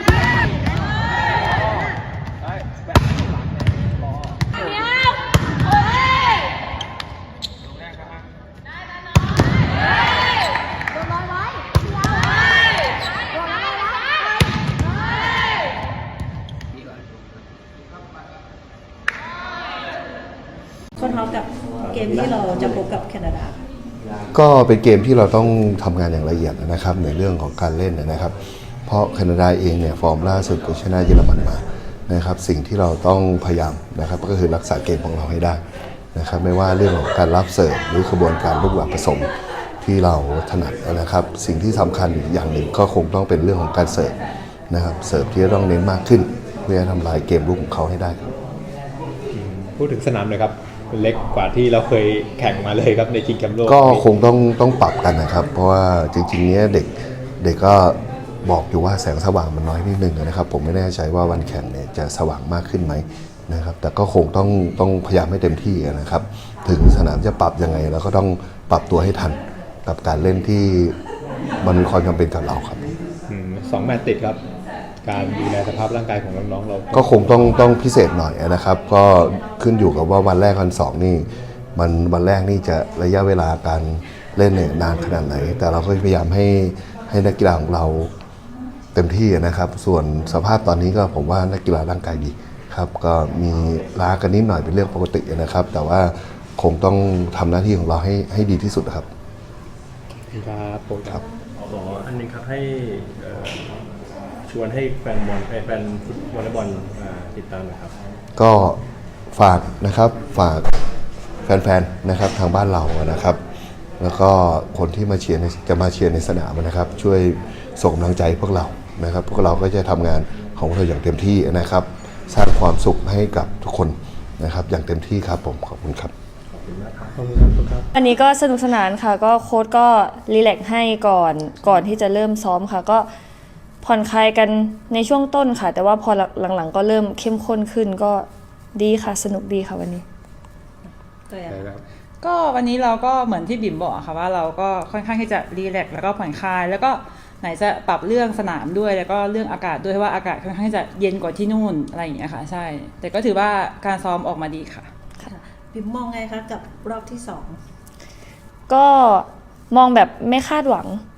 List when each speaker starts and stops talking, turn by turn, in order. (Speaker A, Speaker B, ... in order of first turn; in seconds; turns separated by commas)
Speaker A: 21.0-23.6, Speaker B: 24.3-28.3, Speaker B: 28.9-35.6, Speaker B: 36.1-39.3, Speaker B: 39.8-44.1, Speaker B: 44.7-48.3, Speaker C: 49.3-54.0, Speaker B: 53.6-71.0, Speaker B: 71.6-72.8, Speaker C: 73.3-74.4, Speaker C: 75.0-77.4, Speaker B: 76.9-88.1, Speaker B: 89.0-99.1, Speaker C: 100.3-101.2, Speaker D: 101.6-103.7, Speaker D: 104.5-108.0, Speaker B: 108.4-108.8, Speaker B: 109.3-110.7, Speaker B: 111.5-113.4, Speaker B: 114.0-126.1, Speaker D: 126.5-127.3, Speaker C: 127.2-127.9, Speaker E: 127.9-133.1, Speaker E: 133.8-140.0, Speaker A: 141.3-141.8, Speaker C: 141.5-141.8, Speaker F: 142.2-154.9, Speaker A: 155.2-157.6, Speaker E: 158.7-161.0